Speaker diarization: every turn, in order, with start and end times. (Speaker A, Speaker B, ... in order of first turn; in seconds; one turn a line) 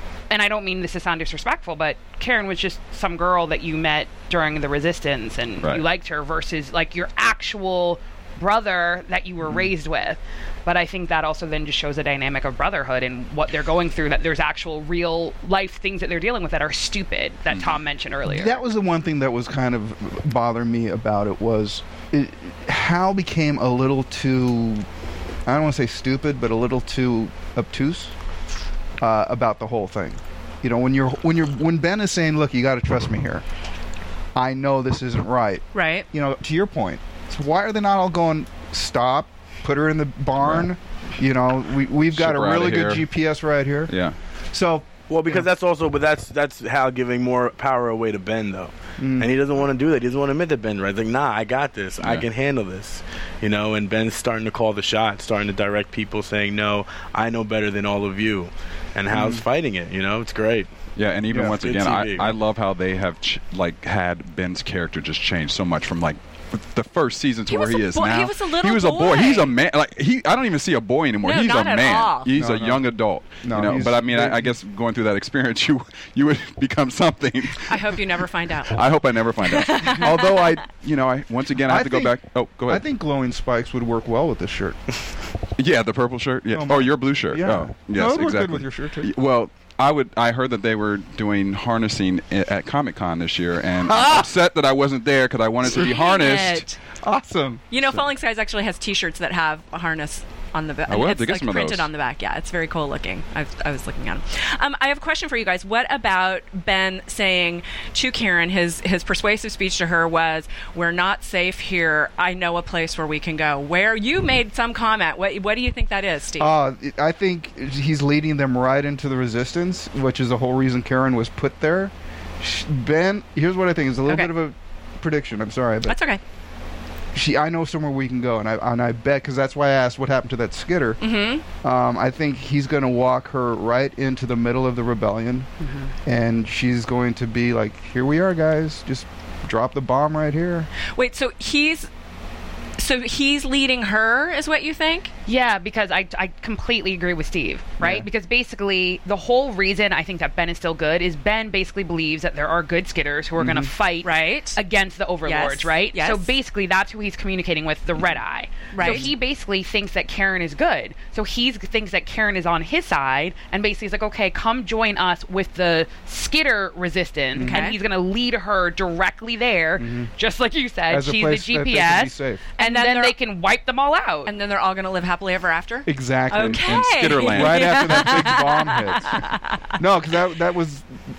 Speaker A: 0.3-18.6
Speaker B: 17.5-17.8
Speaker C: 18.3-24.9
Speaker C: 25.5-28.1
Speaker C: 29.0-33.4
Speaker C: 34.4-43.9
Speaker D: 35.7-36.1
Speaker B: 40.4-40.7
Speaker B: 42.1-43.0
Speaker B: 43.9-44.2
Speaker C: 44.5-45.5
Speaker E: 45.1-60.7
Speaker C: 49.0-49.3
Speaker C: 59.1-59.4
Speaker B: 61.0-78.0
Speaker C: 61.3-61.6
Speaker E: 61.5-62.3
Speaker D: 67.5-69.5
Speaker D: 71.2-72.3
Speaker C: 72.3-72.9
Speaker C: 73.4-74.5
Speaker D: 77.7-78.8
Speaker B: 78.7-82.8
Speaker D: 79.5-80.4
Speaker C: 80.0-80.6
Speaker C: 81.7-84.8
Speaker B: 85.6-96.7
Speaker C: 86.5-89.1
Speaker C: 93.8-94.3
Speaker D: 95.7-96.8
Speaker C: 97.0-97.6
Speaker D: 97.7-116.5
Speaker B: 100.9-101.9
Speaker C: 116.4-126.0
Speaker D: 124.1-124.3
Speaker D: 125.9-126.2
Speaker C: 127.1-131.0
Speaker D: 131.0-131.4
Speaker C: 131.6-135.5
Speaker C: 136.1-140.7
Speaker D: 141.0-141.9
Speaker D: 142.8-145.1
Speaker A: 145.3-174.3
Speaker C: 147.8-148.1
Speaker C: 153.4-153.7
Speaker D: 154.0-154.6
Speaker D: 155.2-156.3
Speaker D: 158.7-159.1
Speaker C: 167.3-167.6
Speaker D: 167.4-167.8
Speaker C: 169.8-170.1
Speaker C: 170.9-172.5
Speaker D: 172.6-173.2
Speaker D: 174.3-179.7
Speaker C: 175.9-181.0
Speaker B: 176.4-178.2